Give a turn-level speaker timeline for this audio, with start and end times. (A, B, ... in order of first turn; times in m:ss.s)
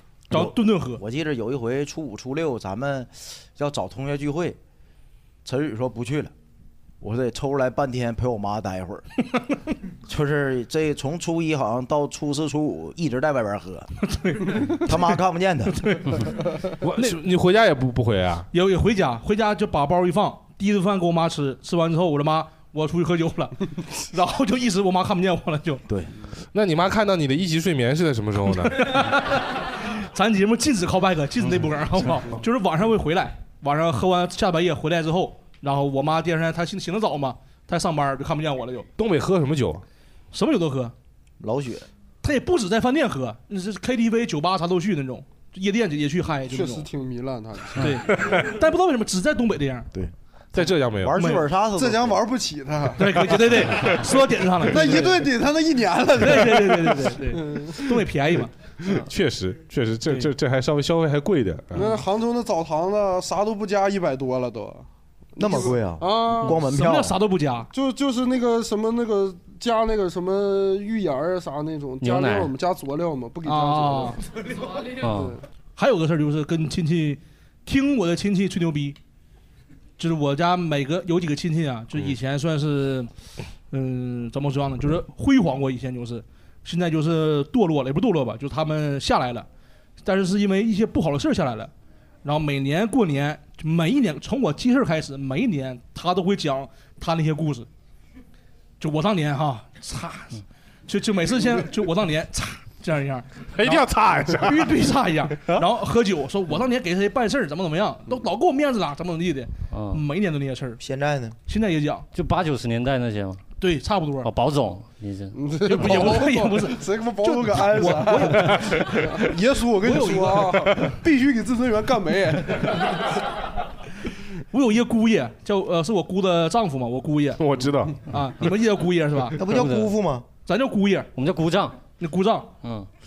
0:00.3-0:01.0 A
0:00.3-0:04.6 B
0:05.4-0:06.3 B
0:07.0-0:09.0 B
0:10.0-0:13.9 B
0:14.0-0:14.9 A
0:14.8-0:15.8 B
0:15.8-0:16.2 A
0:16.8-0:18.5 C
0:18.5-0:25.8 A
0:26.5-0:29.0 C
0:28.6-0:29.4 A
0:30.1-0:38.9 A
0:39.0-0:39.8 C
0:40.3-0:40.9 A
0:41.4-0:41.9 B
0:42.2-0:46.9 A
0:46.5-0:47.9 D
0:47.8-0:49.9 A
0:48.0-0:48.5 C
0:50.5-0:51.2 C
0:50.9-0:52.2 B
0:51.2-0:51.4 A
0:51.8-0:53.4 D
0:53.0-0:55.3 A
0:54.7-0:58.0 D
0:56.2-0:58.5 A
0:58.8-1:02.0 C
1:01.7-1:06.6 D
1:05.4-1:07.2 B
1:06.5-1:07.7 A
1:07.7-1:14.2 D
1:12.0-1:12.5 E
1:13.4-1:14.2 A
1:15.0-1:15.4 E
1:15.0-1:15.4 D
1:15.8-1:19.0 A
1:20.0-1:23.1 A
1:23.7-1:29.5 A
1:30.0-1:31.7 A
1:32.2-1:37.7 A
1:38.8-1:43.8 A
1:43.6-1:44.8 C
1:44.4-1:50.8 A
1:49.7-1:50.0 E
1:50.8-1:51.4 B
1:51.5-1:52.1 A
1:52.1-1:53.4 E
1:53.6-1:54.3 A
1:54.2-1:55.4 E
1:55.3-2:03.0 D
1:55.6-1:59.0 A
1:58.4-1:59.3 C
1:59.8-2:00.9 A
2:04.5-2:07.4 A
2:07.4-2:08.0 C
2:08.1-2:09.4 A
2:09.4-2:10.2 B
2:09.4-2:10.0 E
2:10.4-2:11.1 A
2:11.1-2:11.8 E
2:12.0-2:12.5 A
2:12.6-2:12.9 E